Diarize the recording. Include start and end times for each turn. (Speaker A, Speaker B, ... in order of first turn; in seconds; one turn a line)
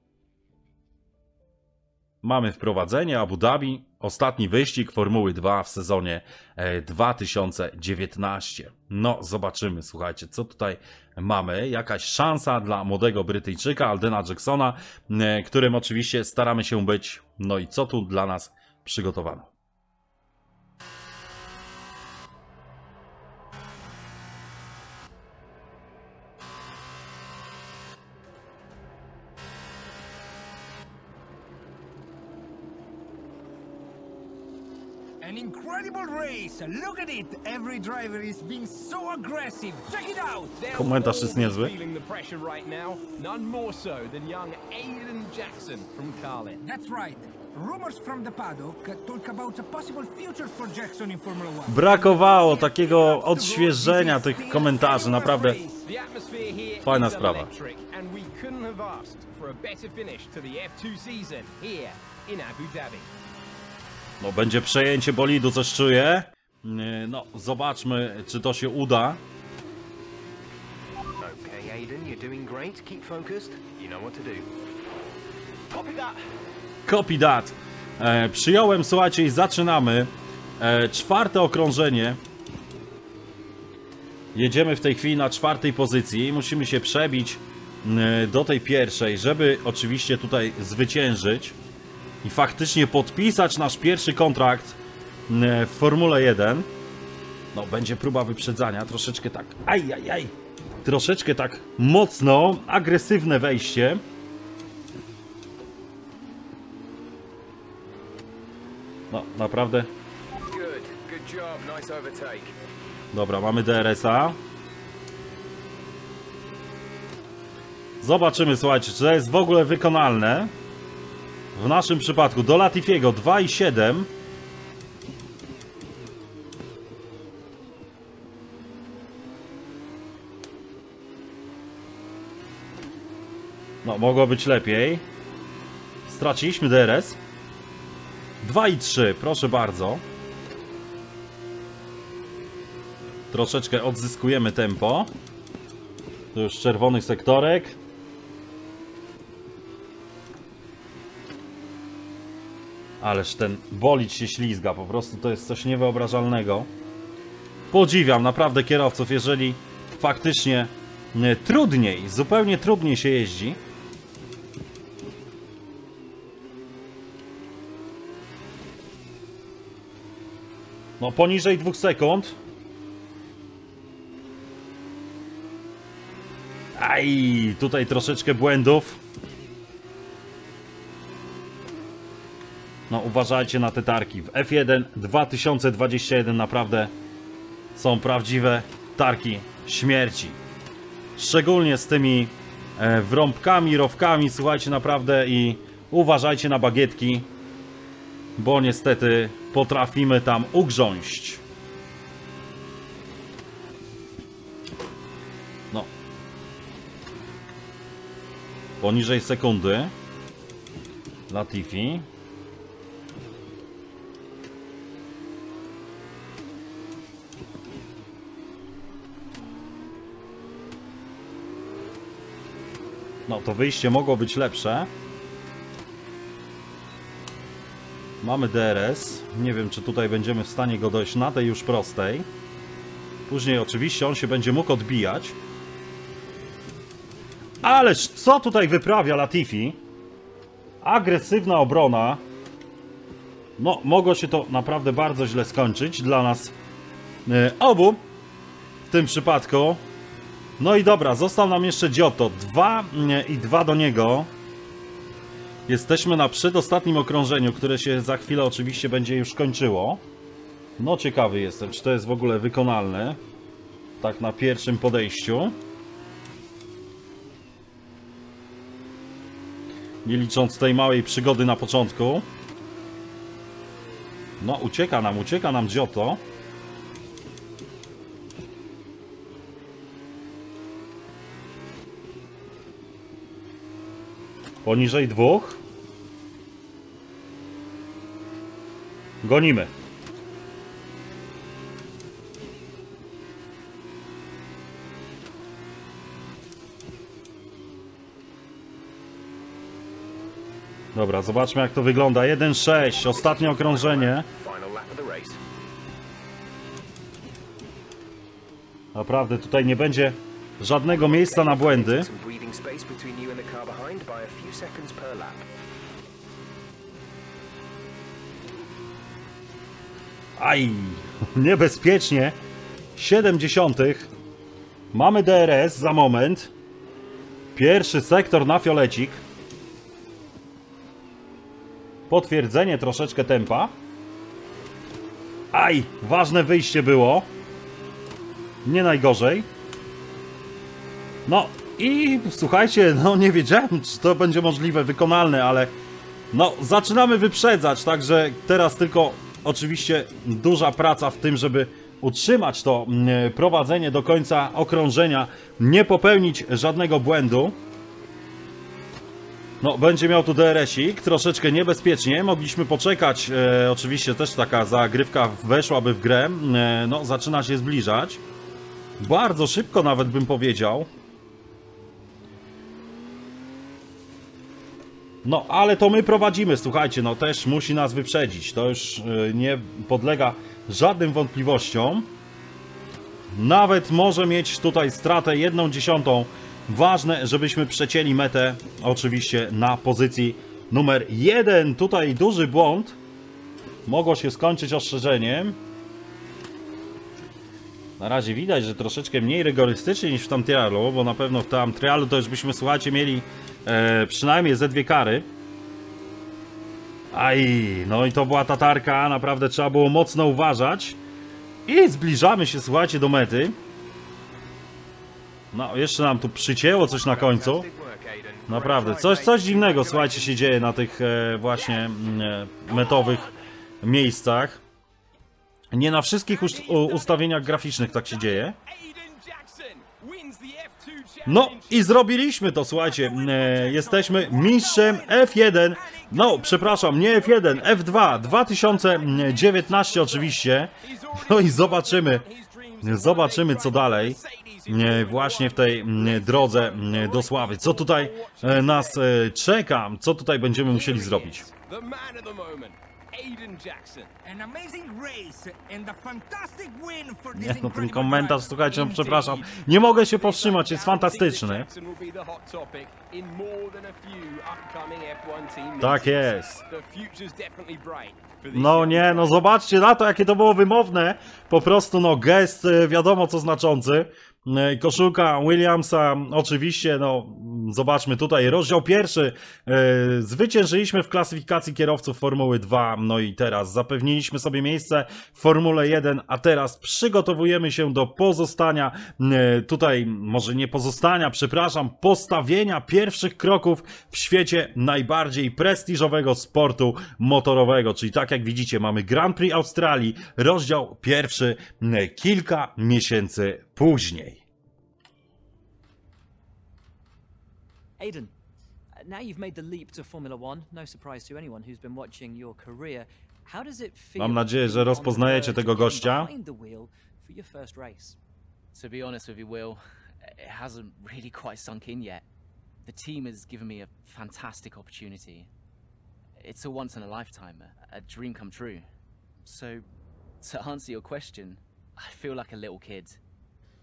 Speaker A: 2.2-19.5
Speaker B: 35.2-40.5
Speaker C: 40.5-46.6
Speaker A: 40.7-41.7
Speaker B: 46.6-55.8
Speaker A: 51.6-55.6
Speaker C: 55.8-63.1
Speaker A: 56.8-57.5
Speaker A: 64.2-69.2
Speaker D: 71.2-74.5
Speaker D: 75.7-76.2
Speaker A: 76.8-82.2
Speaker A: 84.3-91.6
Speaker A: 92.2-96.7
Speaker A: 97.5-104.0
Speaker A: 109.1-109.9
Speaker D: 110.4-112.5
Speaker A: 113.1-114.4
Speaker A: 118.0-120.5
Speaker A: 121.5-124.1
Speaker A: 133.8-135.1
Speaker A: 136.1-137.2
Speaker A: 138.4-140.0
Speaker A: 143.3-145.1
Speaker A: 146.3-147.8
Speaker A: 153.0-156.7
Speaker A: 157.7-163.6
Speaker A: 171.0-172.3
Speaker A: 176.8-179.0
Speaker A: 182.9-186.9
Speaker A: 187.7-190.4
Speaker A: 191.2-197.3
Speaker A: 198.4-201.4
Speaker A: 208.8-209.9
Speaker A: 211.3-212.1
Speaker A: 223.3-224.9
Speaker A: 228.2-232.3
Speaker A: 233.3-235.4
Speaker A: 237.6-239.8
Speaker A: 240.8-242.2
Speaker A: 243.6-246.5
Speaker A: 247.2-248.0
Speaker A: 248.9-249.8
Speaker A: 250.6-254.3
Speaker A: 255.7-260.0
Speaker A: 260.8-263.2
Speaker A: 264.0-265.6
Speaker A: 270.0-272.3
Speaker A: 274.4-276.2
Speaker A: 284.6-285.6
Speaker A: 289.2-289.7
Speaker A: 300.9-304.3
Speaker D: 302.9-305.4
Speaker A: 308.9-312.1
Speaker D: 310.9-315.4
Speaker A: 320.4-322.4
Speaker A: 322.9-324.1
Speaker A: 324.9-326.5
Speaker A: 327.5-329.2
Speaker A: 332.1-333.7
Speaker A: 335.5-337.3
Speaker A: 338.6-339.5
Speaker A: 341.2-345.7
Speaker A: 346.3-357.6
Speaker A: 359.6-368.2
Speaker A: 369.0-370.9
Speaker A: 375.2-382.1
Speaker A: 383.3-393.0
Speaker A: 393.9-395.6
Speaker A: 398.0-405.3
Speaker A: 407.1-411.0
Speaker A: 411.7-413.6
Speaker A: 415.5-417.7
Speaker D: 416.8-420.5
Speaker A: 418.5-423.3
Speaker D: 422.8-423.1
Speaker A: 423.8-424.6
Speaker A: 425.7-428.6
Speaker C: 426.3-431.9
Speaker A: 431.2-442.2
Speaker B: 433.0-436.2
Speaker C: 436.1-449.0
Speaker A: 442.8-451.5
Speaker C: 450.6-454.1
Speaker B: 454.2-459.1
Speaker A: 457.3-461.7
Speaker C: 458.6-469.4
Speaker A: 465.8-466.6
Speaker A: 468.5-504.4
Speaker E: 508.0-508.3
Speaker E: 509.0-518.2
Speaker A: 514.2-516.3
Speaker F: 518.7-522.2
Speaker F: 522.8-525.5
Speaker F: 526.4-528.9
Speaker F: 529.4-529.8
Speaker F: 530.4-533.2